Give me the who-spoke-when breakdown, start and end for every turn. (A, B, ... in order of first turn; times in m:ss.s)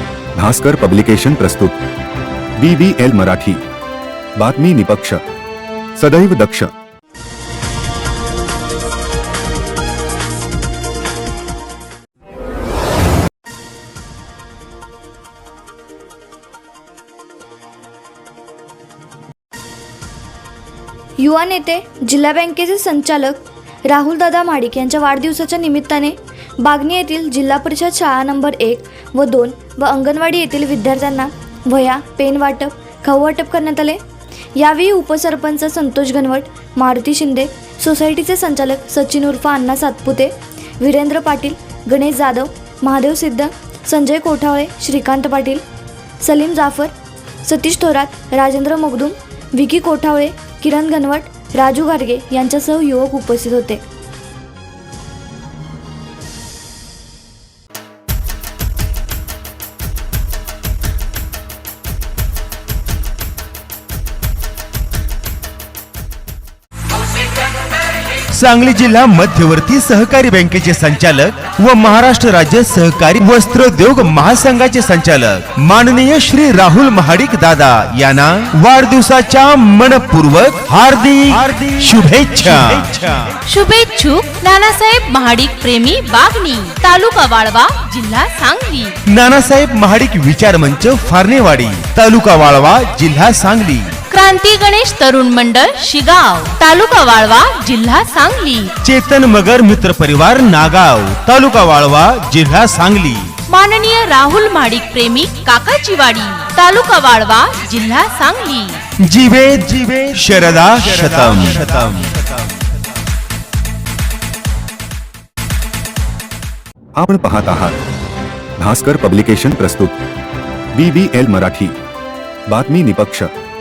0:00.4-0:01.8 A
0:02.6-0:03.6 A
0:04.4-0:05.2 A
0:06.0-0:06.7 A
0:21.2-0:34.0 B
0:34.5-0:45.6 B
0:46.2-0:53.8 B
1:08.3-1:23.3 C
1:23.5-1:28.9 D
1:29.1-1:34.0 C
1:34.1-1:38.7 D
1:38.8-1:43.3 C
1:43.5-1:48.8 D
1:49.0-1:52.3 C
1:57.0-1:57.8 A
1:58.6-2:00.0 A
2:00.7-2:01.8 A
2:02.5-2:03.3 A